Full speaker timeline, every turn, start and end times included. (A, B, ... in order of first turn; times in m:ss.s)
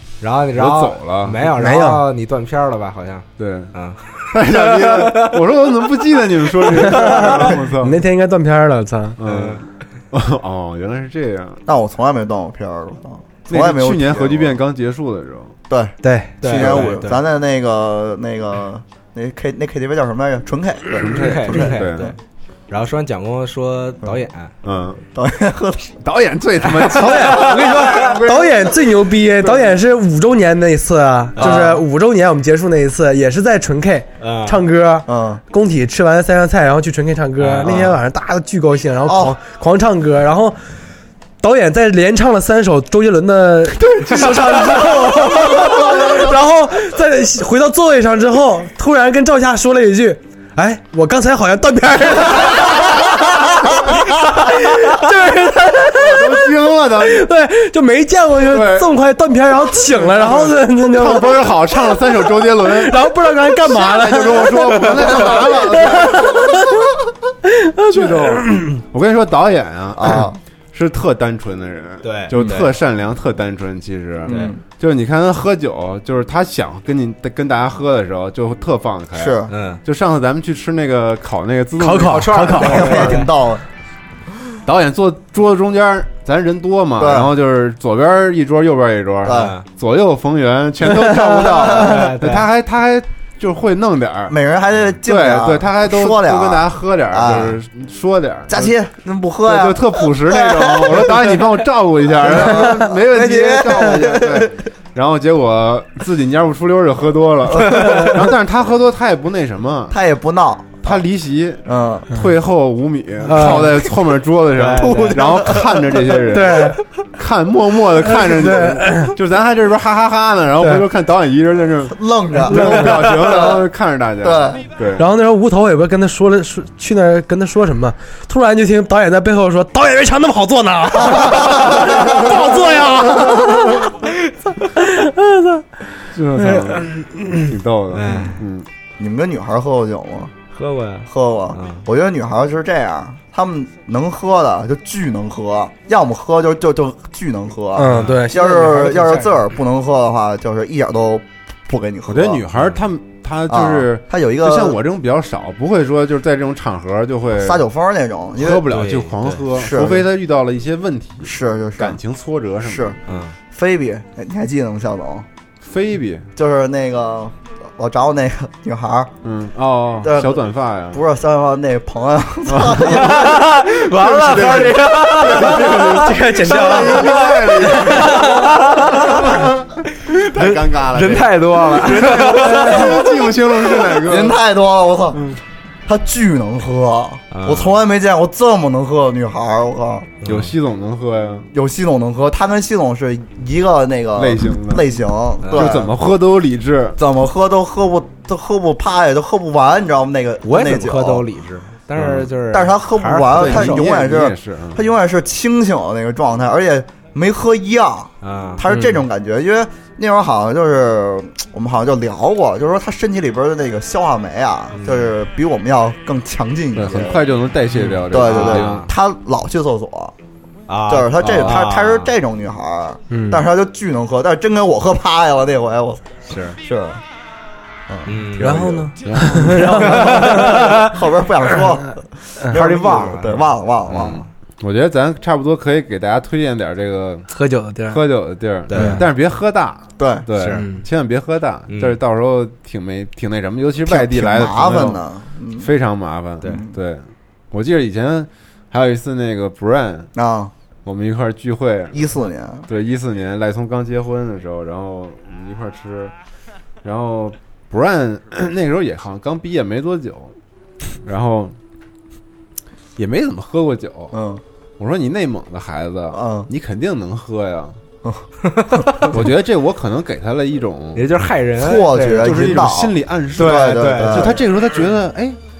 0:00.2-0:05.3 A
0:00.6-0:01.4 B
0:01.5-0:02.0 C
0:03.4-0:03.7 B
0:04.3-0:08.0 B
0:06.6-0:07.4 A
0:06.8-0:09.2 C
0:09.2-0:11.6 B
0:09.2-0:09.6 A
0:11.7-0:14.6 D
0:13.5-0:15.5 B
0:15.7-0:21.7 D
0:16.0-0:16.4 C
0:16.4-0:17.2 A
0:16.5-0:16.8 B
0:21.0-0:22.1 B
0:21.1-0:22.2 A
0:22.7-0:24.5 A
0:24.6-0:25.0 B
0:25.1-0:26.0 D
0:26.0-0:29.8 B
0:26.8-0:28.0 A
0:26.9-0:40.6 C
0:31.4-0:31.6 A
0:31.4-0:31.8 D
0:34.2-0:34.6 A
0:35.1-0:35.4 D
0:37.4-0:37.8 A
0:37.6-0:37.9 D
0:39.0-0:39.4 D
0:41.4-1:06.9 C
0:45.2-0:46.3 D
0:55.8-0:57.3 B
0:58.4-0:58.9 B
0:59.9-1:06.6 B
1:07.5-1:08.6 C
1:07.9-1:23.0 B
1:10.0-1:10.4 D
1:12.0-1:12.7 A
1:12.3-1:12.6 D
1:14.2-1:14.6 D
1:14.3-1:14.5 A
1:19.1-1:19.5 D
1:19.5-1:19.8 A
1:21.8-1:23.3 C
1:22.0-1:23.2 A
1:22.6-1:23.6 D
1:24.6-1:34.3 B
1:27.0-1:27.3 D
1:29.2-1:29.5 D
1:29.3-1:29.6 A
1:31.7-1:32.4 A
1:34.3-1:37.6 D
1:35.0-1:38.7 B
1:38.5-1:41.5 D
1:39.4-1:50.0 B
1:42.2-1:44.5 D
1:47.5-1:48.2 D
1:49.9-1:51.0 D
1:50.8-2:05.1 B
1:51.6-1:52.1 D
1:53.2-1:53.9 C
1:54.5-1:55.5 A
1:54.8-1:55.8 D
1:56.3-1:56.8 C
1:58.0-1:59.1 C
2:00.6-2:00.8 C
2:01.9-2:03.7 D
2:02.4-2:03.4 C
2:04.2-2:04.6 D
2:05.0-2:13.9 C
2:11.0-2:12.2 D
2:14.8-2:15.6 C
2:16.1-2:18.6 B
2:16.4-2:17.5 C
2:17.9-2:18.4 A
2:19.0-2:20.3 D
2:20.5-2:21.8 A
2:21.0-2:32.4 D
2:27.8-2:29.4 C
2:27.8-2:28.2 A
2:32.1-2:37.6 B
2:33.5-2:34.8 D
2:37.4-2:38.7 D
2:38.4-2:42.9 B
2:38.7-2:39.4 A
2:39.5-2:40.1 D
2:41.2-2:42.0 D
2:42.6-2:43.0 D
2:43.1-2:43.4 A
2:43.5-2:45.2 D
2:45.6-2:46.2 B
2:46.4-2:49.1 D
2:49.2-2:51.0 B
2:50.0-2:55.6 D
2:52.5-2:53.0 B
2:52.8-2:56.1 A
2:54.3-3:04.4 B
2:55.8-2:58.6 C
2:57.9-2:59.4 A
2:59.9-3:03.0 A
3:02.1-3:03.0 C
3:04.0-3:05.3 D
3:05.1-3:05.4 B
3:05.8-3:10.1 D
3:07.3-3:07.8 A
3:10.2-3:10.5 A
3:10.2-3:11.5 B
3:11.5-3:15.9 D
3:14.2-3:15.0 B
3:15.4-3:15.7 A
3:15.5-3:17.0 B
3:17.0-3:21.2 D
3:20.4-3:23.8 A
3:22.0-3:22.3 B
3:22.5-3:37.2 D
3:23.4-3:24.8 B
3:28.2-3:28.7 A
3:34.7-3:35.1 A
3:36.8-3:38.8 B
3:37.7-3:38.9 A
3:38.1-3:40.1 D
3:40.7-3:42.1 A
3:40.9-3:47.0 D
3:41.2-3:41.6 B
3:43.1-3:43.4 C
3:46.2-3:46.6 A
3:47.9-3:48.8 D
3:48.1-3:48.6 A
3:48.4-3:50.7 C
3:48.4-3:49.5 B
3:49.2-3:51.0 A
3:49.6-3:54.3 D
3:52.5-3:53.5 A
3:53.9-3:57.3 B
3:57.3-3:58.0 C
3:57.8-4:05.0 B
3:58.7-3:59.0 A
3:58.7-3:59.0 C
4:00.0-4:00.2 D
4:00.4-4:00.6 A
4:00.5-4:00.8 C
4:01.7-4:02.0 A
4:03.8-4:05.7 D
4:05.6-4:10.1 B
4:10.1-4:10.5 D
4:10.8-4:12.1 B
4:11.9-4:12.7 D
4:12.7-4:16.1 B
4:16.8-4:20.3 B
4:21.0-4:21.5 B
4:23.0-4:24.2 B
4:24.1-4:24.4 D
4:24.8-4:27.8 B
4:26.1-4:26.5 D
4:28.5-4:29.1 A
4:29.1-4:31.1 B
4:30.9-4:32.6 A
4:31.6-4:34.4 D
4:32.2-4:35.4 B
4:33.3-4:34.4 A